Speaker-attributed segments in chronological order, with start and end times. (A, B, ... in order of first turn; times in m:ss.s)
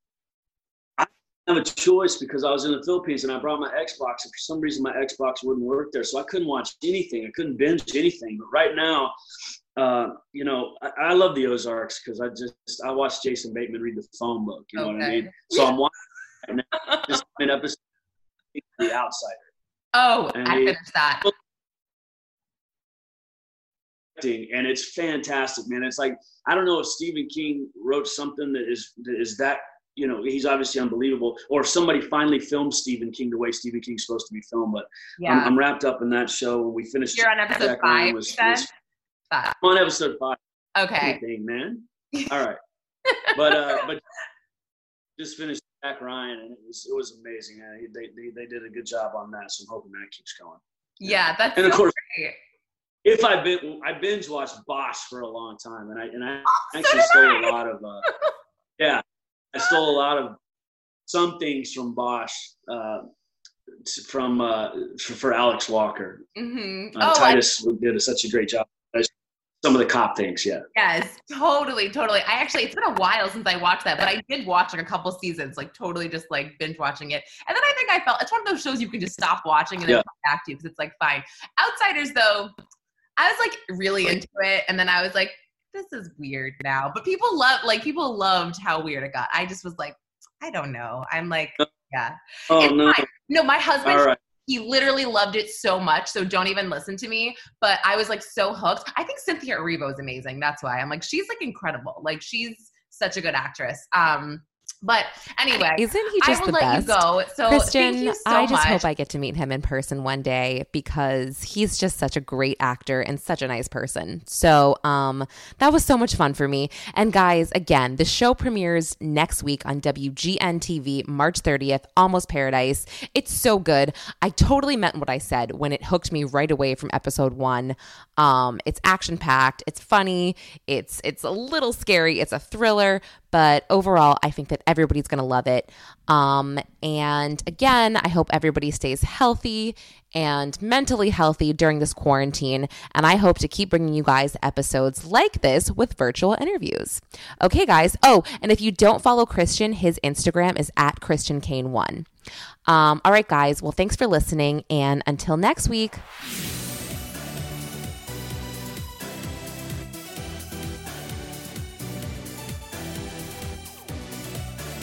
0:01.0-0:09.2 A
0:09.8-0:17.8 A
0:14.8-0:15.7 B
0:16.8-0:17.2 B
0:18.5-0:19.5 A
0:19.9-0:21.3 B
0:20.3-0:21.3 A
0:24.2-0:38.7 A
0:35.2-0:35.5 B
0:37.1-0:38.7 B
0:39.3-0:39.6 B
0:39.6-0:40.4 A
0:40.8-0:41.2 B
0:41.0-0:42.6 A
0:43.1-0:43.8 B
0:43.3-0:44.0 A
0:45.2-0:52.0 A
0:51.0-0:52.4 B
0:53.0-0:58.1 A
0:56.6-0:57.5 B
0:58.8-1:00.4 A
1:01.1-1:03.1 A
1:03.8-1:06.2 A
1:06.4-1:07.4 B
1:07.0-1:10.6 A
1:10.8-1:22.5 B
1:23.2-1:48.8 B
1:32.5-1:33.1 A
1:33.8-1:34.2 A
1:45.8-2:32.1 C
2:32.7-2:36.0 C